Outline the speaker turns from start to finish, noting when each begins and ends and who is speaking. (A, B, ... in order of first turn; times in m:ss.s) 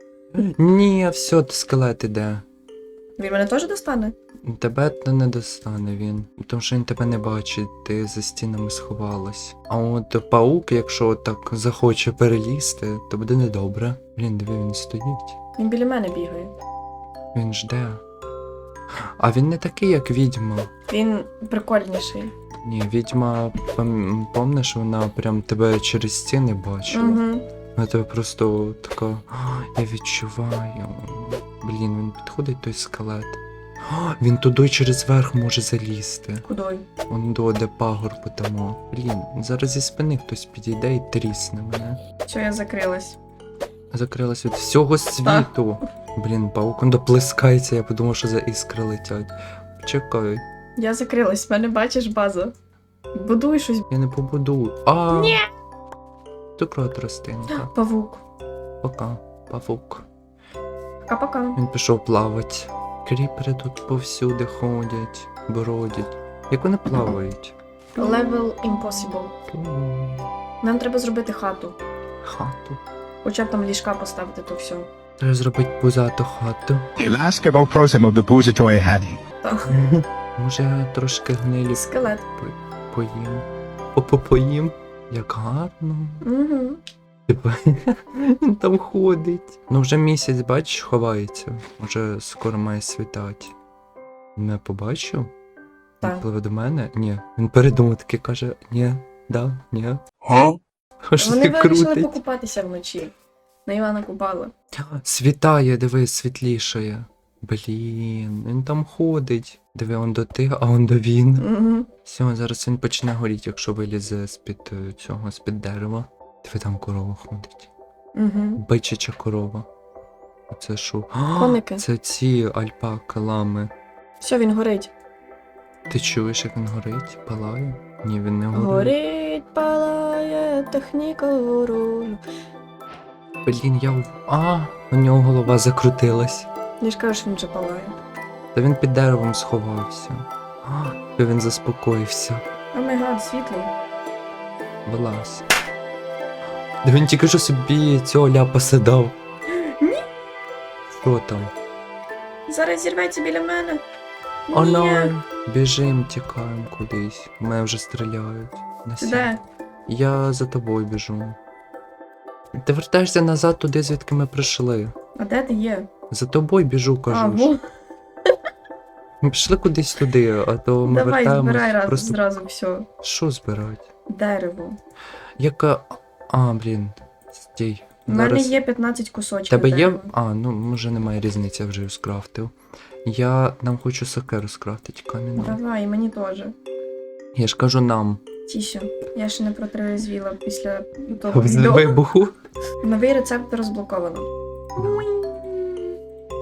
0:00.3-0:02.4 A
0:03.2-0:04.2 B
0:04.4-0:15.4 A
0:15.6-0:16.5 B
0:17.3-0:18.0 A
0:19.0-0:20.7 A
0:20.9-0:22.3 B
0:22.6-0:27.2 A
0:26.9-0:27.4 B
0:27.8-0:36.4 A
0:36.4-0:36.9 B
0:37.1-0:42.0 A
0:42.3-0:43.2 B
0:43.9-0:50.4 A
0:50.8-0:52.5 B
0:53.1-0:53.9 B
0:53.9-0:55.4 A
0:55.1-0:55.4 B
0:56.6-0:57.7 A
0:57.6-0:58.2 B
0:58.8-1:00.1 A
1:01.1-1:01.6 B
1:01.6-1:07.5 A
1:08.0-1:09.3 B
1:09.5-1:10.3 A
1:10.6-1:11.8 B
1:12.2-1:12.8 A
1:13.2-1:14.9 B
1:15.2-1:16.8 A
1:17.0-1:19.2 C
1:19.4-1:19.8 B
1:19.7-1:26.2 A
1:21.7-1:22.2 B
1:26.2-1:26.8 B
1:27.3-1:33.5 A
1:34.4-1:35.3 A
1:36.0-1:40.0 A
1:41.1-1:42.2 A
1:41.2-1:43.1 B
1:43.7-1:44.5 B
1:44.8-1:51.5 A
1:51.4-1:51.9 B
1:52.1-1:57.7 A
1:58.2-1:58.6 B
1:58.6-1:59.7 A
2:00.5-2:03.7 A
2:01.4-2:01.8 B
2:04.2-2:04.9 B
2:05.9-2:09.0 A
2:08.5-2:12.2 B
2:13.4-2:16.5 A
2:16.8-2:18.0 B
2:18.6-2:22.4 A
2:22.7-2:23.7 B
2:24.9-2:25.5 A
2:26.8-2:29.2 A
2:29.5-2:30.1 B
2:30.9-2:31.5 A
2:32.5-2:33.8 B
2:34.5-2:35.1 B
2:34.5-2:39.3 A
2:39.0-2:39.4 B
2:39.9-2:41.4 A
2:42.6-2:44.9 A
2:45.2-2:45.9 B
2:46.1-2:47.5 A
2:47.1-2:47.6 B
2:49.2-2:52.2 A
2:50.9-2:52.9 B
2:53.0-2:53.9 A
2:54.1-2:54.8 B
2:55.4-2:58.6 A
2:58.1-3:00.1 B
2:59.5-3:02.5 A
3:03.0-3:05.6 A
3:05.4-3:06.5 B
3:07.4-3:08.2 A
3:08.5-3:11.9 B
3:11.3-3:12.4 A
3:12.8-3:16.0 B
3:14.8-3:15.1 A